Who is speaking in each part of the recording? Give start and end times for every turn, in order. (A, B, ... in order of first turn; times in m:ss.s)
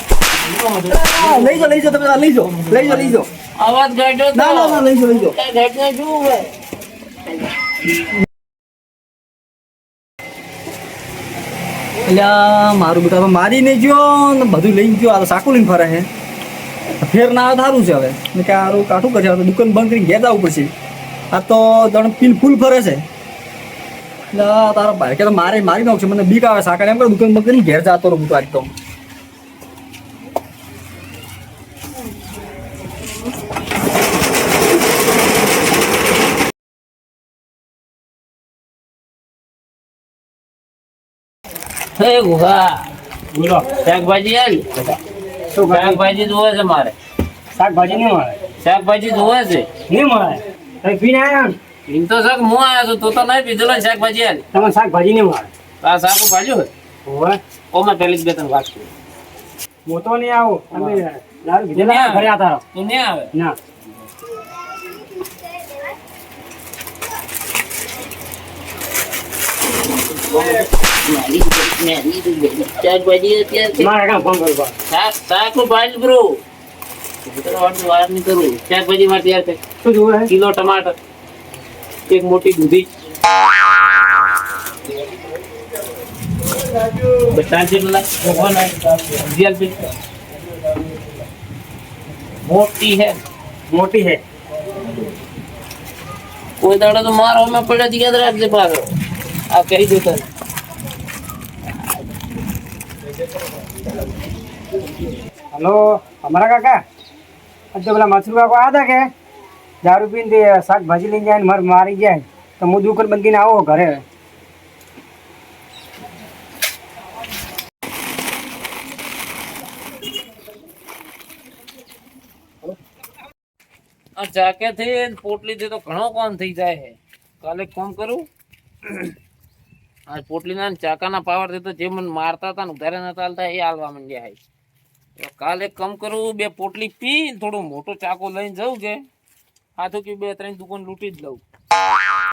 0:00.3-0:06.5 A
0:00.9-0:03.3 B
0:04.3-0:05.4 B
0:12.0-0:16.1 B
0:17.0-0:20.7 B
0:21.3-0:23.0 B
0:24.3-0:28.7 B
0:42.0-0:42.9 A
0:43.3-0:43.7 C
0:43.8-0:45.0 A
0:45.5-0:46.0 C
0:45.7-0:46.9 A
0:47.6-0:48.4 C
0:48.6-0:49.7 A
0:49.9-0:51.5 C
0:51.9-0:54.4 A
0:54.5-0:55.5 C
0:55.8-0:56.7 A
0:57.0-0:57.4 C
0:57.7-0:58.9 A
0:59.9-1:02.6 C
1:00.7-1:01.0 A
1:01.7-1:03.3 A
1:10.0-1:13.9 A
1:13.8-1:14.7 C
1:14.9-1:16.3 A
1:17.2-1:19.6 A
1:19.8-1:20.3 C
1:20.3-1:21.0 A
1:22.1-1:22.9 A
1:27.1-1:29.9 A
1:32.4-1:33.2 A
1:33.7-1:34.2 C
1:36.6-1:38.9 A
1:39.5-1:40.3 A
1:45.5-1:46.8 C
1:47.7-1:49.0 C
1:49.8-1:54.0 C
2:04.2-2:08.2 A
2:08.8-2:09.1 A
2:10.1-2:14.4 A
2:15.2-2:19.0 A
2:19.8-2:21.4 A